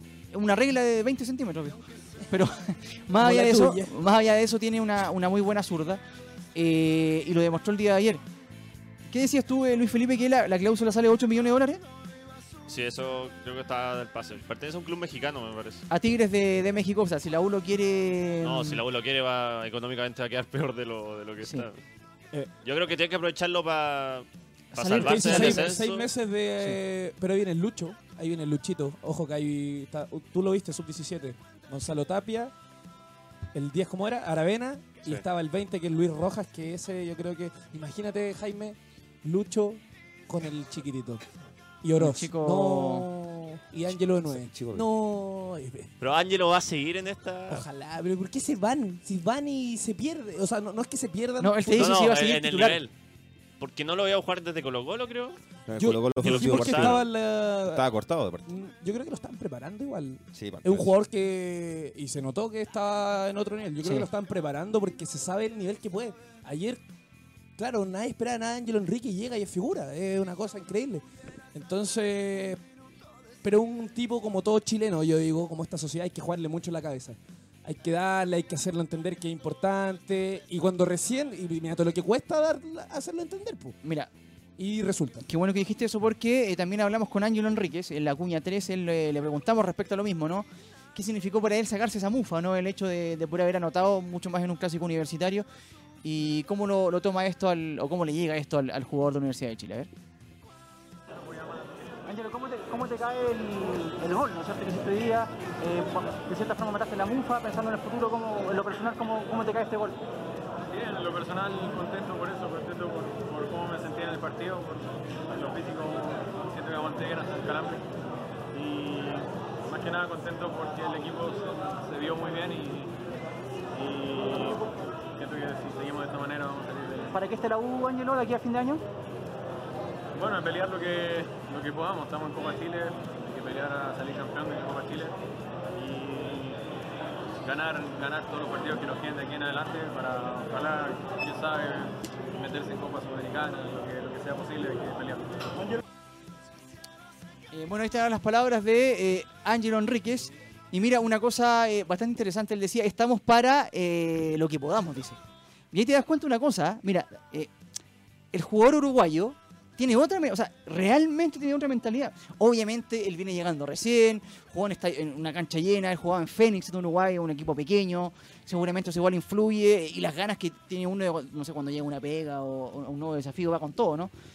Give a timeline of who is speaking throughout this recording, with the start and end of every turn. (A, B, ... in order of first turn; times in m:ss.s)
0:00.3-0:06.0 A
0:03.2-0:03.9 B
0:06.5-0:08.2 A
0:09.1-0:11.8 A
0:12.7-0:15.8 C
0:15.9-0:18.8 A
0:18.4-0:21.8 C
0:22.6-0:26.1 C
0:24.7-0:25.7 A
0:25.0-0:32.5 B
0:33.5-0:41.2 B
0:41.8-0:45.9 B
0:42.0-0:43.1 A
0:43.9-0:44.9 D
0:46.0-0:47.6 C
0:47.5-0:52.1 B
0:51.4-0:52.8 A
0:51.8-0:52.9 C
0:53.6-0:55.4 C
0:55.7-0:57.1 D
0:55.8-0:57.8 B
0:56.1-0:57.0 C
0:57.7-0:58.5 D
0:58.5-1:06.8 B
1:00.4-1:00.9 D
1:03.8-1:04.1 A
1:07.6-1:12.6 B
1:13.4-1:23.8 B
1:23.8-1:24.1 A
1:24.6-1:25.2 B
1:25.2-1:35.5 A
1:36.0-1:39.9 A
1:41.2-1:41.8 E
1:42.1-1:50.0 F
1:50.7-1:57.9 E
1:58.5-2:03.0 E
2:03.7-2:07.2 E
2:07.1-2:08.8 F
2:10.2-2:15.2 E
2:15.7-2:16.6 E
2:17.4-2:25.6 E
2:27.5-2:35.2 A
2:35.7-2:37.5 A
2:38.3-2:54.1 A